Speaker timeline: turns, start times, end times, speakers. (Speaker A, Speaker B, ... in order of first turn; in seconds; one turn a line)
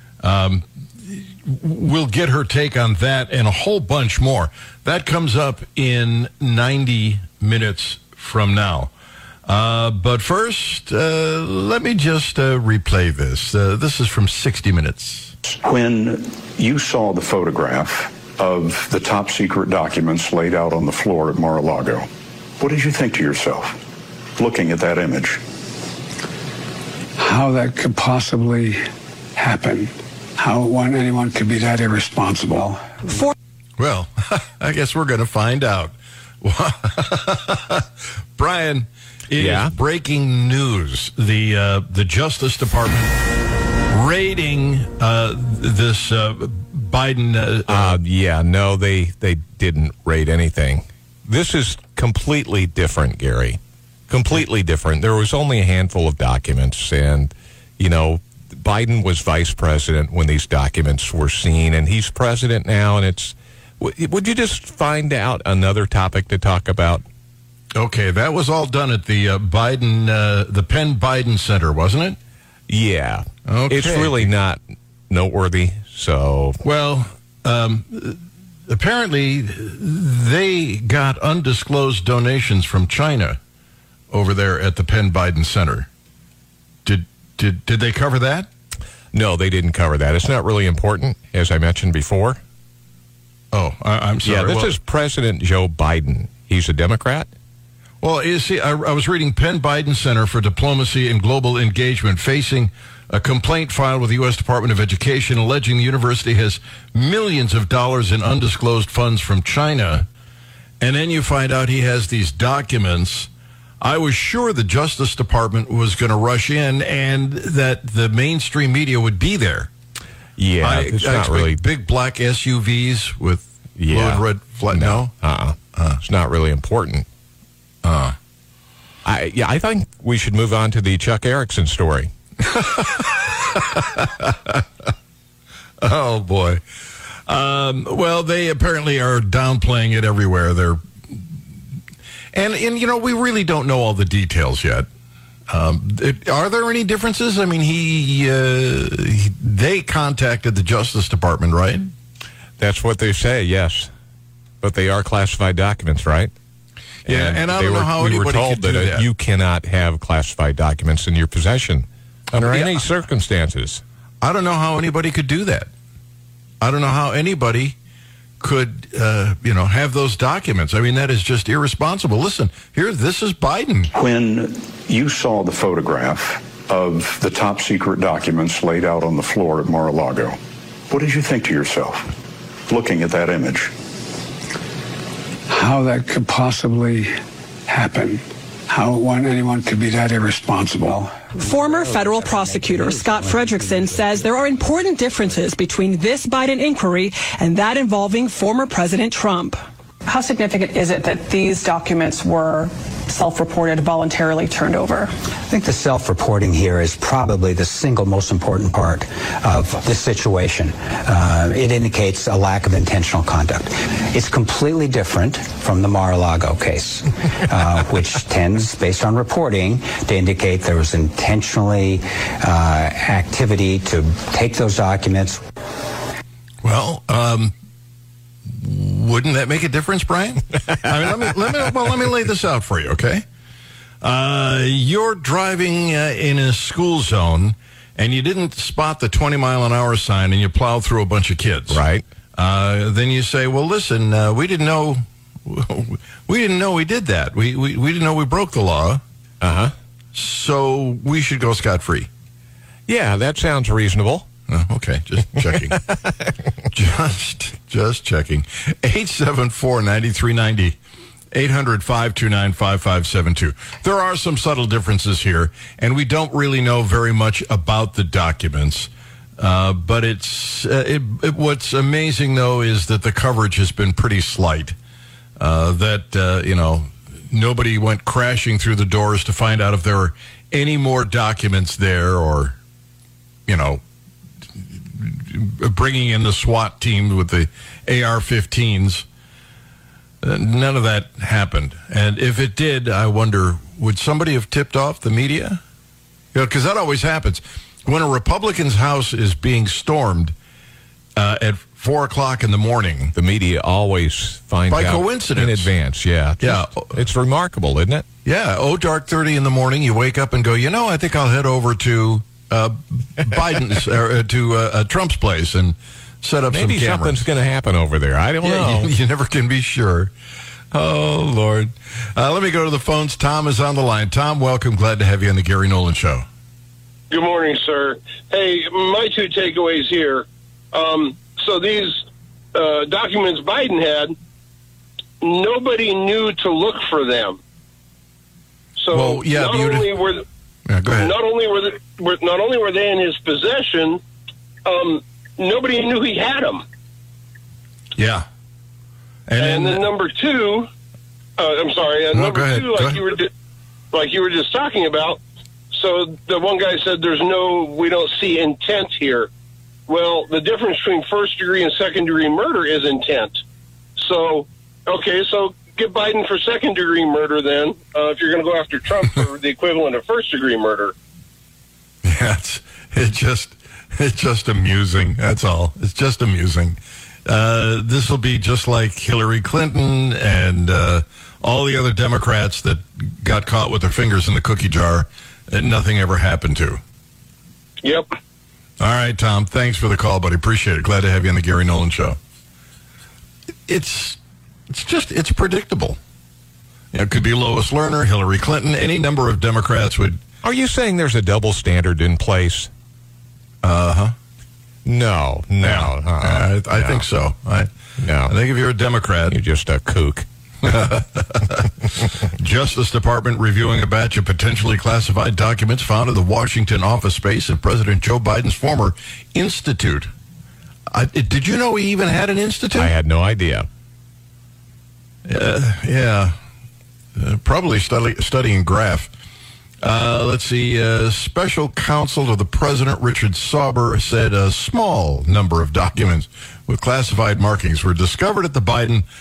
Speaker A: 0.2-8.9
Speaker A: 9.5-15.3
Speaker B: 15.5-22.1
Speaker B: 22.6-23.8
Speaker B: 24.4-25.4
Speaker C: 27.2-28.8
Speaker C: 29.4-33.2
Speaker A: 33.8-37.8
Speaker A: 38.4-43.1
Speaker D: 39.4-39.7
Speaker A: 43.9-48.0
Speaker D: 47.7-67.0
Speaker A: 67.7-72.2
Speaker D: 72.7-76.6
Speaker A: 73.5-74.3
Speaker A: 76.6-83.4
Speaker A: 84.1-85.9
Speaker A: 86.8-88.5
Speaker D: 89.1-92.4
Speaker A: 93.5-94.8
Speaker D: 94.2-97.3
Speaker A: 98.0-110.1
Speaker A: 110.8-113.3
Speaker A: 113.8-119.7
Speaker D: 120.4-121.6
Speaker A: 120.6-125.1
Speaker D: 123.8-127.0
Speaker A: 127.8-128.1
Speaker D: 129.1-132.1
Speaker A: 132.4-134.6
Speaker A: 135.8-136.6
Speaker A: 137.3-141.2
Speaker A: 142.3-144.9
Speaker A: 145.5-151.9
Speaker D: 152.6-153.9
Speaker D: 154.6-156.3
Speaker A: 157.1-159.1
Speaker D: 157.1-163.8
Speaker A: 162.3-162.8
Speaker A: 164.2-165.7
Speaker A: 166.6-167.8
Speaker A: 168.4-173.9
Speaker B: 173.9-180.4
Speaker B: 180.9-182.1
Speaker B: 182.7-183.7
Speaker C: 185.5-187.1
Speaker C: 187.7-191.3
Speaker E: 191.3-199.5
Speaker F: 200.1-205.1
Speaker G: 205.5-225.4
Speaker A: 226.6-227.5
Speaker A: 228.5-233.2
Speaker A: 234.0-241.8
Speaker D: 241.7-242.0
Speaker A: 242.4-249.0
Speaker D: 249.4-249.7
Speaker A: 250.1-252.1
Speaker D: 252.9-254.2
Speaker A: 254.5-255.8
Speaker D: 255.5-256.3
Speaker A: 256.7-260.8
Speaker A: 261.3-274.8
Speaker A: 275.4-282.6
Speaker A: 283.5-283.8
Speaker A: 284.6-289.1
Speaker A: 290.2-295.6
Speaker A: 296.3-300.3
Speaker A: 301.1-303.1
Speaker D: 303.1-308.0
Speaker A: 304.7-305.7
Speaker A: 306.4-307.0
Speaker A: 308.2-317.2
Speaker D: 316.5-318.9
Speaker A: 318.4-320.1
Speaker A: 320.7-326.2
Speaker H: 327.1-334.1
Speaker H: 335.2-337.4
Speaker H: 338.8-340.2
Speaker A: 338.9-339.9
Speaker A: 340.7-341.1
Speaker H: 341.0-344.0
Speaker H: 344.6-346.6
Speaker A: 348.0-348.2
Speaker A: 349.3-349.8
Speaker H: 349.4-350.7
Speaker H: 351.4-353.3
Speaker A: 352.1-353.0
Speaker H: 353.9-355.2
Speaker H: 355.7-359.3
Speaker H: 359.9-363.4
Speaker H: 364.0-370.9
Speaker A: 372.0-386.8
Speaker H: 387.8-388.1
Speaker A: 388.8-392.2
Speaker A: 393.7-396.0
Speaker A: 396.9-400.2
Speaker D: 400.4-402.7
Speaker A: 403.6-404.1
Speaker D: 404.8-407.1
Speaker A: 405.6-407.7
Speaker D: 408.0-408.3
Speaker A: 408.2-409.4
Speaker D: 409.3-410.2
Speaker A: 410.6-411.7
Speaker A: 412.3-420.1
Speaker A: 420.9-422.9
Speaker D: 422.8-423.7
Speaker A: 425.2-426.4
Speaker A: 427.1-429.1
Speaker A: 429.8-439.0